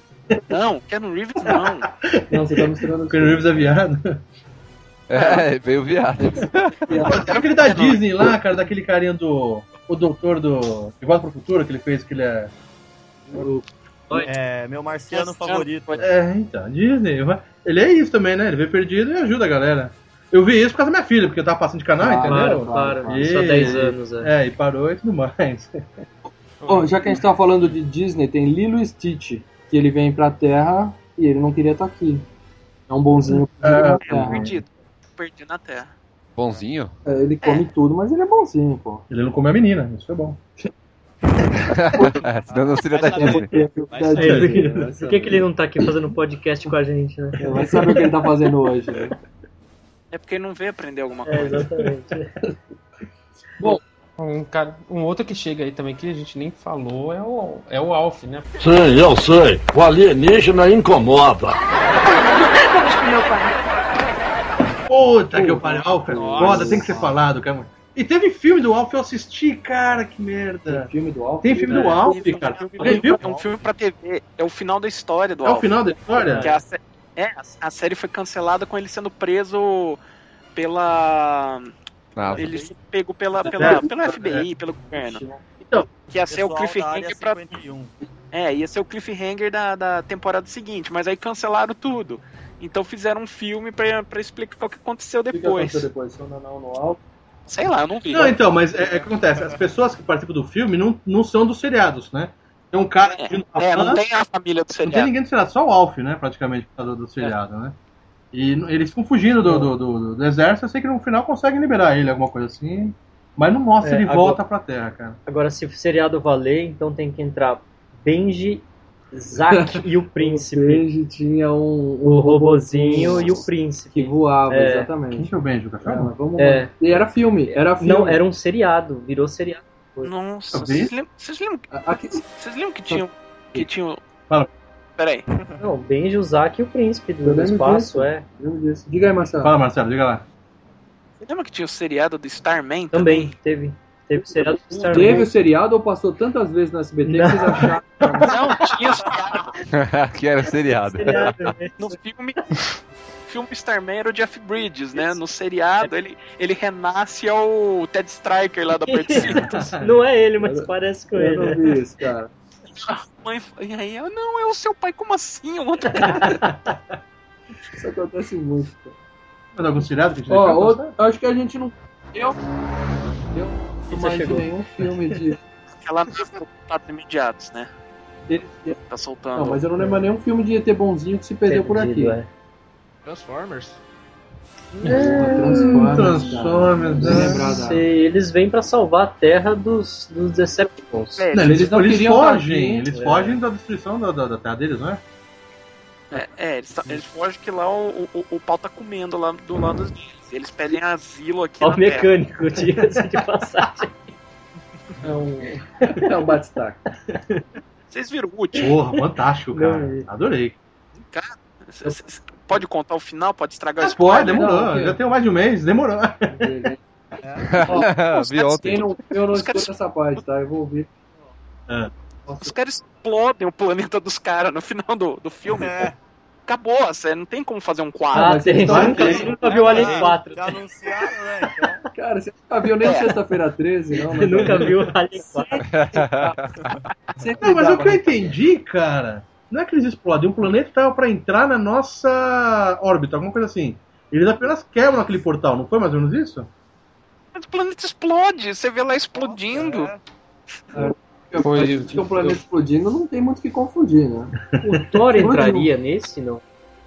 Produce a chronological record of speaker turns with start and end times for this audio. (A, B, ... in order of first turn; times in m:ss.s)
0:00.5-0:01.9 A
0:01.4-0:04.2 B
0:02.3-0:03.7 C
0:05.1-0:06.8 D
0:05.2-0:05.4 A
0:06.2-0:07.2 C
0:07.0-0:08.1 A
0:07.1-0:12.5 B
0:13.3-0:13.6 C
0:14.1-0:16.1 E
0:15.1-0:16.0 A
0:16.0-0:25.8 B
0:22.0-0:24.0 C
0:22.2-0:24.3 F
0:26.6-0:26.9 G
0:26.7-0:32.2 C
0:32.9-0:34.6 C
0:33.6-0:34.5 B
0:33.8-0:35.9 A
0:36.4-0:36.9 D
0:37.1-0:39.1 C
0:39.1-0:40.4 B
0:41.6-0:43.5 D
0:41.9-0:42.2 C
0:42.5-0:44.5 G
0:43.0-0:45.4 C
0:44.2-0:47.4 F
0:44.2-0:44.8 B
0:47.4-0:49.2 C
0:50.1-0:51.7 A
0:51.2-0:52.3 F
0:54.2-0:58.5 H
0:58.6-1:01.6 I
1:04.9-1:10.9 B
1:05.3-1:07.2 C
1:06.1-1:07.0 G
1:10.7-1:12.2 C
1:11.4-1:13.2 B
1:12.0-1:15.7 A
1:12.6-1:13.5 E
1:15.4-1:16.5 B
1:16.1-1:16.6 F
1:16.4-1:20.0 A
1:20.6-1:21.7 A
1:22.2-1:22.6 D
1:22.3-1:25.2 A
1:23.5-1:23.9 C
1:23.6-1:24.4 B
1:24.9-1:25.4 C
1:25.6-1:25.9 B
1:26.1-1:27.4 A
1:26.2-1:27.9 E
1:28.3-1:35.9 A
1:35.3-1:37.0 C
1:37.5-1:38.4 A
1:38.1-1:44.0 B
1:43.1-1:45.1 A
1:44.8-1:47.8 B
1:48.3-1:55.2 B
1:49.4-1:49.7 C
1:53.8-1:54.4 F
1:55.2-2:00.9 F
1:59.5-2:05.3 C
2:02.0-2:04.9 F
2:05.1-2:06.1 B
2:05.8-2:08.2 C
2:06.4-2:06.7 F
2:07.5-2:10.1 F
2:10.0-2:11.7 A
2:10.5-2:10.9 B
2:11.7-2:12.2 C
2:12.4-2:14.0 A
2:12.9-2:13.7 C
2:15.0-2:15.2 A
2:15.6-2:18.2 F
2:17.2-2:19.6 C
2:19.4-2:20.2 B
2:21.2-2:23.3 A
2:22.9-2:25.3 F
2:24.9-2:28.5 C
2:27.0-2:27.7 F
2:28.2-2:29.6 A
2:29.7-2:31.6 D
2:30.7-2:31.8 F
2:31.8-2:32.4 A
2:33.2-2:39.6 A
2:38.9-2:41.7 F
2:39.2-2:39.8 B
2:40.4-2:42.3 C
2:42.7-2:46.4 A
2:46.3-2:46.8 B
2:47.7-2:49.0 C
2:49.6-2:50.9 B
2:50.3-2:52.4 C
2:53.3-2:55.4 C
2:53.9-2:54.5 F
2:55.8-2:57.7 A
2:58.3-2:58.8 C
2:58.9-2:59.6 A
2:59.4-3:02.2 C
3:01.5-3:02.3 F
3:03.0-3:03.8 G
3:04.8-3:05.9 F
3:04.8-3:07.8 C
3:05.6-3:07.4 B
3:07.0-3:11.2 F
3:11.2-3:11.8 A
3:11.3-3:15.0 B
3:11.4-3:12.9 C
3:12.9-3:13.4 F
3:16.1-3:22.1 A
3:21.6-3:23.9 F
3:25.0-3:26.8 C
3:27.1-3:27.4 B
3:27.9-3:28.7 A
3:28.6-3:30.6 B
3:29.5-3:30.1 F
3:31.1-3:34.4 A
3:33.8-3:36.4 B
3:34.2-3:35.0 C
3:36.3-3:36.8 C
3:37.2-3:37.6 E
3:37.4-3:39.0 D
3:37.6-3:37.9 C
3:38.1-3:39.7 A
3:38.6-3:40.9 C
3:42.2-3:42.5 C
3:42.4-3:45.9 A
3:45.5-3:46.0 E
3:46.5-3:48.9 A
3:48.1-3:49.4 C
3:48.1-3:50.6 F
3:48.7-3:49.3 B
3:49.0-3:51.8 E
3:51.9-3:54.8 C
3:52.8-3:53.2 A
3:54.1-3:55.6 F
3:54.4-3:54.6 B
3:55.7-3:56.7 D
3:55.9-3:56.4 C
3:57.2-3:58.4 C
3:57.4-4:06.5 B
4:07.4-4:09.9 A
4:09.1-4:10.0 E
4:10.7-4:14.3 C
4:11.4-4:12.4 H
4:14.6-4:16.4 F
4:15.1-4:15.7 C